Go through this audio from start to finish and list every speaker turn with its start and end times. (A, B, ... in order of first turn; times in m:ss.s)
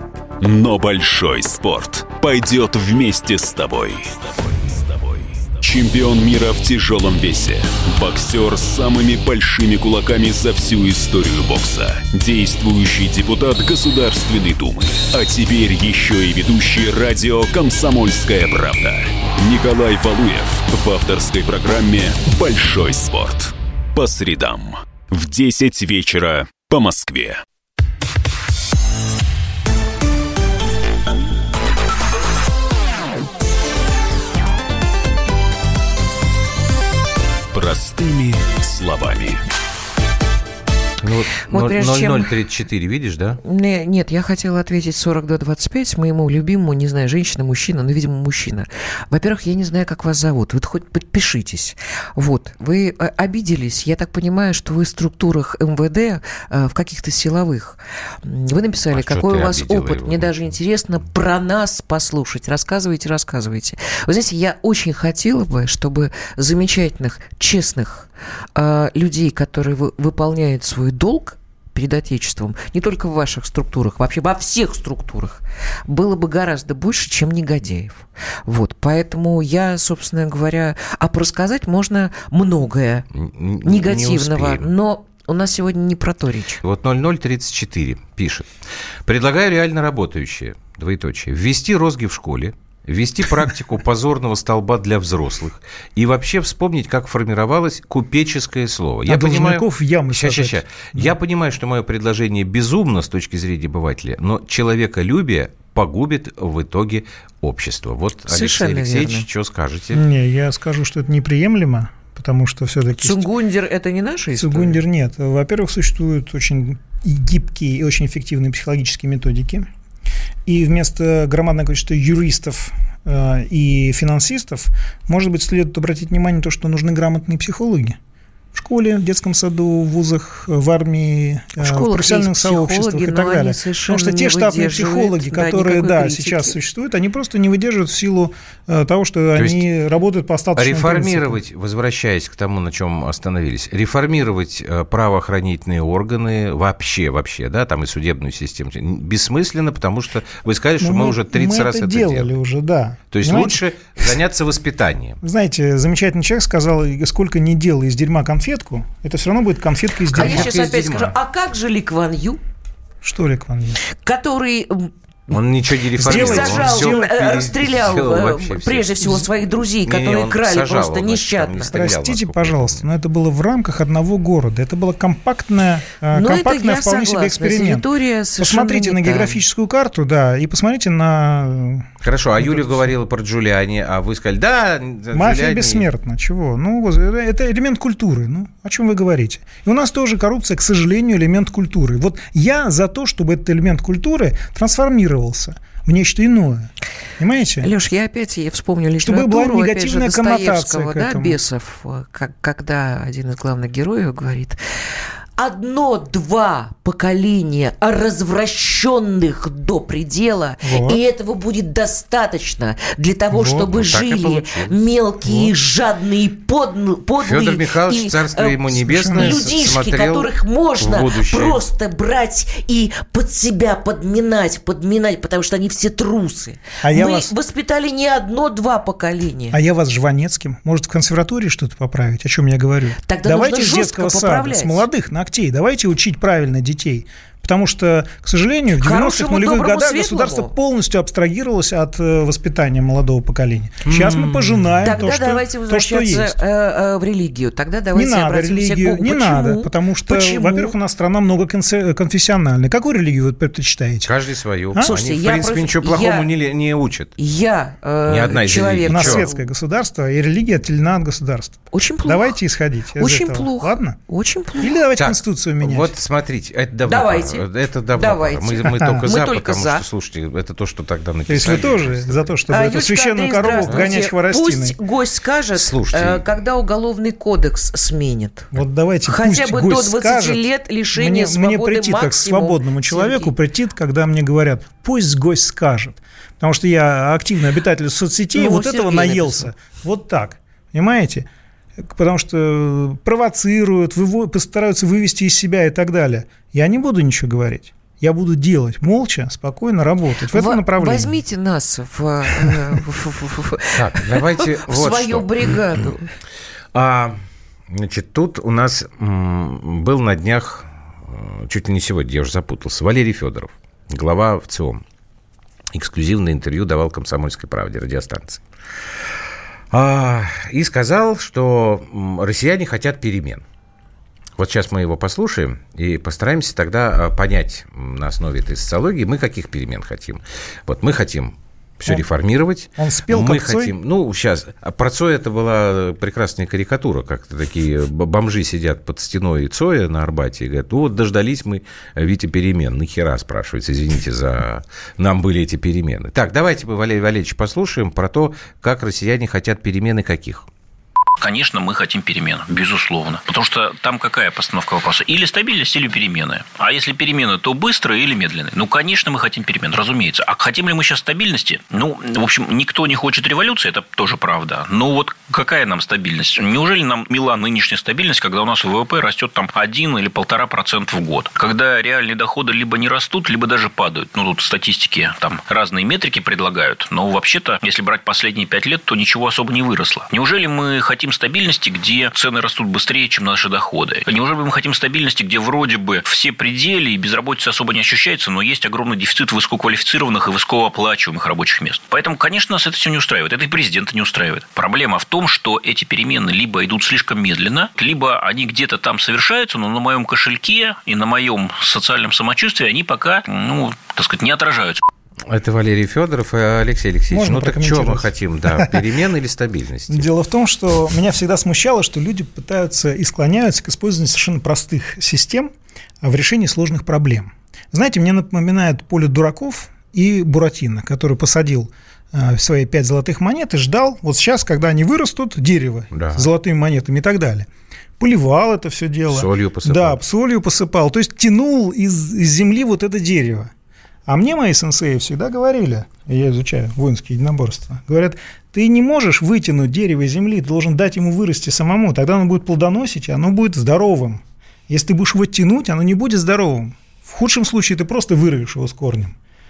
0:00.4-0:27.4 A
0:37.5-0:39.4 A
0:41.0-0:43.4 B
0:41.5-0:42.3 C
0:43.4-1:23.1 C
0:58.9-1:00.5 B
1:23.1-1:24.7 B
1:23.6-1:26.6 C
1:26.6-1:28.5 B
1:29.1-1:50.0 B
1:39.1-1:41.1 D
1:48.3-1:49.3 C
1:49.9-1:53.3 D
1:53.0-1:54.8 C
1:54.4-1:59.7 D
2:00.5-2:08.0 D
2:08.5-2:21.4 D
2:11.6-2:16.6 C
2:19.4-2:19.6 B
2:20.6-2:32.3 B
2:30.8-2:33.6 D
2:33.1-2:35.2 B
2:35.2-2:40.5 D
2:40.1-2:41.1 B
2:40.2-2:42.4 C
2:43.0-2:43.8 D
2:43.8-2:44.9 C
2:45.3-2:49.2 B
2:46.0-2:47.1 D
2:46.0-2:51.7 C
2:49.8-2:52.8 B
2:51.7-2:57.9 D
2:56.1-2:59.4 C
2:58.4-3:02.9 D
3:02.0-3:05.9 B
3:05.1-3:17.7 D
3:17.6-3:24.6 C
3:19.0-3:21.4 D
3:25.4-3:49.6 C
3:30.6-3:31.0 D
3:33.3-3:33.7 D
3:33.7-3:34.8 B
3:37.2-3:41.6 B
3:38.7-3:39.4 D
3:46.8-3:47.3 D
3:49.5-4:06.4 D
3:53.1-3:54.9 C
3:58.7-4:00.5 C
4:03.8-4:05.0 B
4:04.8-4:10.7 C
4:07.9-4:14.1 D
4:14.0-4:17.2 B
4:14.8-4:16.3 C
4:17.2-4:19.4 C
4:18.1-4:19.3 B
4:18.9-4:24.0 D
4:21.7-4:22.4 C
4:23.0-4:24.8 C
4:24.6-4:25.9 D
4:25.0-4:32.2 B
4:26.9-4:27.4 C
4:28.0-4:29.8 C
4:28.7-4:29.0 D
4:31.3-4:34.8 D
4:32.5-4:38.5 C
4:35.6-4:36.2 B
4:38.5-4:51.3 D
4:39.1-4:43.3 C
4:48.3-4:49.5 C
4:51.8-5:01.2 D
5:00.3-5:06.1 C
5:03.8-5:05.8 B
5:06.7-5:14.8 B
5:15.7-5:18.4 B
5:19.7-5:23.4 B
5:24.4-5:50.5 B
5:32.8-5:33.7 D
5:51.2-6:44.8 E
6:45.3-6:50.1 B
6:47.1-6:48.8 D
6:49.9-6:55.5 D
6:56.0-7:13.5 D
7:05.9-7:06.3 B
7:09.1-7:10.0 B
7:14.1-7:29.2 D